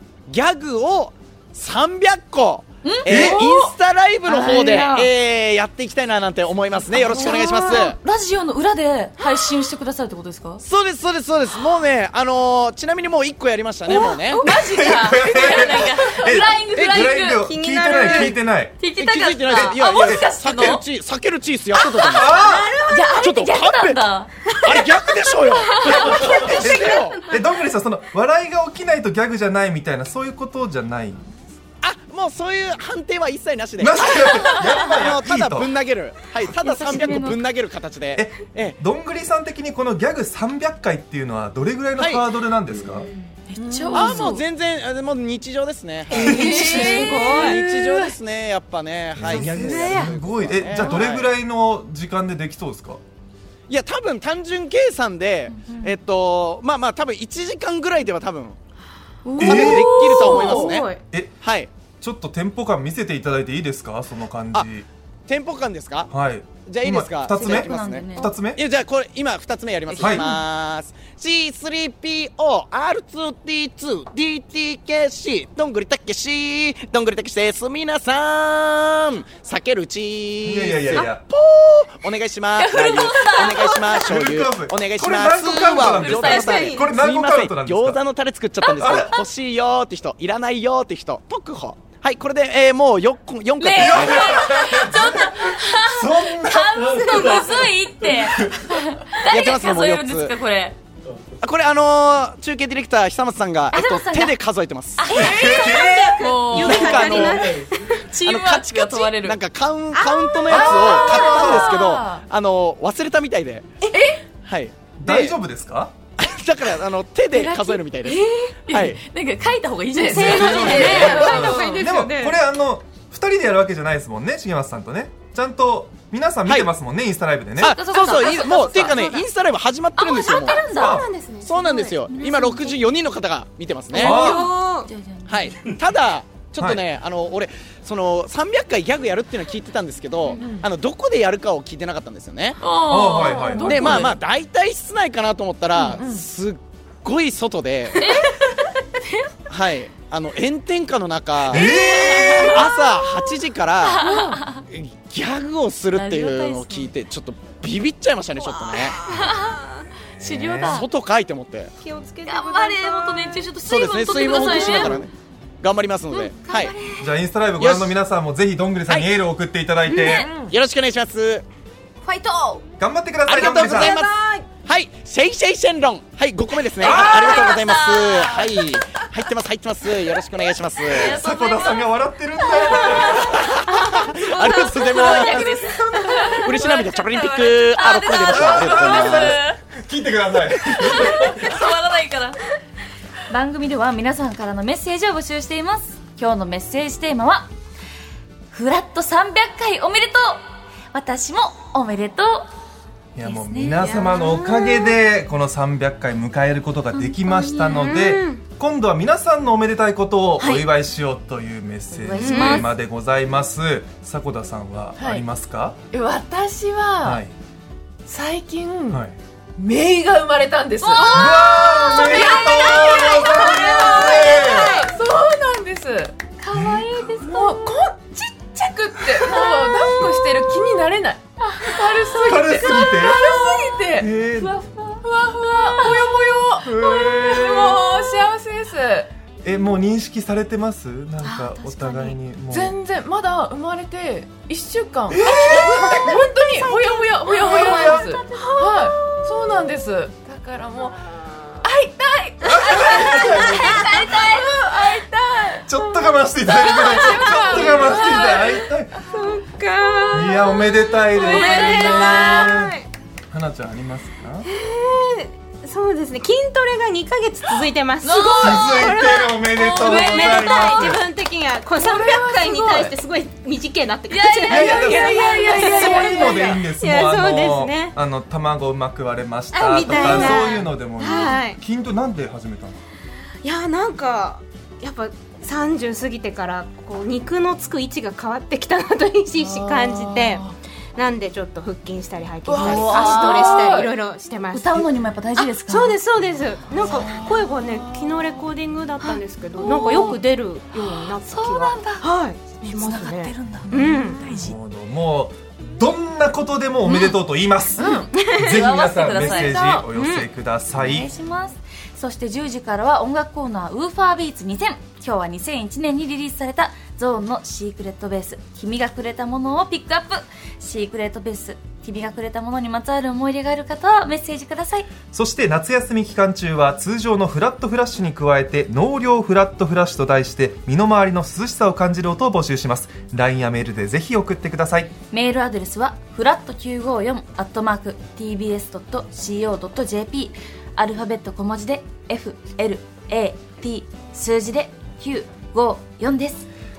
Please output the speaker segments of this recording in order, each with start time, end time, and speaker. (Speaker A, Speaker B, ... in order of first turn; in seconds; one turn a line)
Speaker A: 0.3-8.0
Speaker B: 2.8-3.7
Speaker C: 3.0-3.4
Speaker B: 4.2-5.1
Speaker B: 6.9-10.6
Speaker D: 7.1-7.8
Speaker A: 10.6-14.4
Speaker B: 13.9-17.4
Speaker C: 14.4-18.8
Speaker A: 16.7-17.1
Speaker D: 17.3-18.4
Speaker B: 17.9-20.8
Speaker A: 19.0-22.6
Speaker C: 19.5-20.2
Speaker B: 21.7-24.5
Speaker C: 22.1-22.7
Speaker D: 22.4-23.2
Speaker A: 23.1-24.1
Speaker A: 24.6-27.2
Speaker B: 25.8-26.3
Speaker C: 25.9-31.3
Speaker A: 31.8-38.8
Speaker C: 33.8-35.7
Speaker B: 36.5-37.4
Speaker C: 38.1-43.1
Speaker A: 42.0-42.2
Speaker B: 43.5-44.4
Speaker E: 43.5-44.3
Speaker A: 43.9-51.3
Speaker C: 46.1-47.1
Speaker D: 46.1-47.6
Speaker E: 46.3-48.1
Speaker C: 49.2-53.0
Speaker D: 49.3-50.1
Speaker A: 53.7-58.6
Speaker B: 55.5-56.0
Speaker B: 59.2-60.8
Speaker D: 59.3-61.0
Speaker C: 59.4-60.1
Speaker A: 59.4-60.9
Speaker A: 61.4-61.7
Speaker C: 62.0-64.9
Speaker A: 65.3-66.1
Speaker C: 66.1-68.6
Speaker A: 66.7-94.5
Speaker B: 67.4-68.3
Speaker B: 69.9-70.4
Speaker C: 70.0-70.3
Speaker C: 80.4-81.2
Speaker B: 82.5-84.1
Speaker C: 84.0-88.0
Speaker B: 85.5-86.9
Speaker B: 88.6-89.2
Speaker C: 88.8-89.1
Speaker B: 93.6-100.8
Speaker C: 93.7-98.5
Speaker A: 99.3-100.3
Speaker A: 101.4-105.1
Speaker B: 103.7-104.4
Speaker B: 105.0-107.5
Speaker C: 105.1-106.2
Speaker D: 105.2-108.0
Speaker A: 106.3-107.6
Speaker B: 108.0-109.4
Speaker A: 108.2-113.9
Speaker D: 109.9-111.2
Speaker C: 110.5-111.7
Speaker E: 111.2-112.2
Speaker E: 113.9-114.2
Speaker A: 114.4-115.3
Speaker C: 115.0-115.9
Speaker A: 116.2-119.0
Speaker B: 117.3-121.8
Speaker E: 119.9-121.9
Speaker D: 120.1-122.4
Speaker C: 120.1-127.8
Speaker A: 120.6-121.5
Speaker A: 127.6-130.6
Speaker B: 127.6-129.2
Speaker D: 128.5-129.0
Speaker B: 130.0-131.0
Speaker D: 130.4-132.0
Speaker C: 130.7-131.1
Speaker A: 131.4-134.2
Speaker B: 132.1-132.8
Speaker C: 133.9-134.5
Speaker B: 133.9-135.6
Speaker D: 133.9-134.9
Speaker A: 135.3-142.6
Speaker C: 136.6-136.8
Speaker E: 140.4-140.6
Speaker B: 142.6-144.2
Speaker C: 142.9-144.1
Speaker E: 143.2-143.7
Speaker A: 143.7-148.2
Speaker E: 145.9-146.2
Speaker B: 147.9-148.3
Speaker A: 149.5-158.9
Speaker C: 151.5-152.7
Speaker B: 151.5-152.7
Speaker D: 151.6-152.5
Speaker B: 153.8-154.6
Speaker E: 154.0-154.3
Speaker B: 155.9-156.9
Speaker B: 158.4-159.6
Speaker C: 160.2-160.8
Speaker B: 160.2-160.9
Speaker A: 160.6-161.7
Speaker D: 161.8-163.4
Speaker B: 162.2-165.1
Speaker A: 163.6-165.1
Speaker D: 164.2-165.0
Speaker A: 165.6-166.7
Speaker B: 166.1-167.1
Speaker C: 167.0-170.3
Speaker A: 167.6-167.9
Speaker B: 169.9-170.5
Speaker D: 170.0-170.2
Speaker A: 170.1-171.4
Speaker B: 172.0-172.6
Speaker C: 172.8-173.9
Speaker A: 173.2-181.2
Speaker B: 173.7-174.0
Speaker C: 176.8-177.4
Speaker B: 176.8-178.5
Speaker B: 180.8-189.6
Speaker C: 180.9-183.3
Speaker A: 182.9-189.4
Speaker C: 188.2-191.5
Speaker B: 190.8-192.4
Speaker B: 193.3-197.5
Speaker B: 198.5-202.4
Speaker C: 203.1-215.8
Speaker B: 203.2-204.1
Speaker D: 203.9-204.9
Speaker B: 206.9-207.9
Speaker D: 207.7-208.4
Speaker B: 210.4-210.7
Speaker B: 211.9-212.7
Speaker D: 212.1-212.6
Speaker E: 215.0-215.2
Speaker E: 215.9-217.2
Speaker C: 217.0-217.3
Speaker E: 218.1-219.0
Speaker E: 219.6-221.2
Speaker B: 220.8-224.4
Speaker C: 221.1-224.9
Speaker D: 221.9-224.9
Speaker E: 223.6-224.0
Speaker E: 224.6-226.2
Speaker B: 226.4-227.4
Speaker C: 226.5-227.5
Speaker E: 227.3-234.1
Speaker B: 229.5-229.8
Speaker B: 232.0-232.9
Speaker C: 232.2-233.3
Speaker C: 233.9-234.5
Speaker B: 234.3-235.9
Speaker E: 235.0-239.1
Speaker C: 236.6-237.8
Speaker C: 239.4-242.7
Speaker B: 241.2-242.2
Speaker E: 242.5-251.0
Speaker C: 245.1-246.3
Speaker D: 245.2-249.2
Speaker C: 247.3-248.1
Speaker E: 251.6-255.7
Speaker C: 252.4-254.1
Speaker D: 252.8-254.4
Speaker C: 255.7-258.9
Speaker D: 256.5-262.9
Speaker E: 256.6-258.4
Speaker C: 260.1-262.7
Speaker B: 261.3-262.2
Speaker E: 261.5-262.1
Speaker C: 263.3-264.5
Speaker D: 264.5-277.9
Speaker B: 268.0-268.9
Speaker C: 268.3-271.0
Speaker B: 269.5-271.0
Speaker E: 271.8-273.0
Speaker B: 274.1-276.5
Speaker C: 274.5-282.8
Speaker E: 275.9-276.6
Speaker D: 279.5-281.6
Speaker B: 280.0-280.4
Speaker B: 281.0-281.3
Speaker D: 283.4-290.4
Speaker E: 289.4-290.6
Speaker D: 290.9-304.3
Speaker E: 292.4-293.9
Speaker B: 292.6-293.7
Speaker B: 294.5-296.0
Speaker E: 296.8-298.4
Speaker B: 299.0-300.2
Speaker E: 299.6-300.2
Speaker B: 300.8-302.1
Speaker B: 302.6-304.6
Speaker C: 303.8-311.1
Speaker B: 307.8-309.6
Speaker E: 307.8-308.1
Speaker D: 308.1-308.6
Speaker E: 309.1-309.9
Speaker D: 309.9-310.3
Speaker B: 310.7-324.9
Speaker C: 325.1-334.9
Speaker B: 335.1-346.5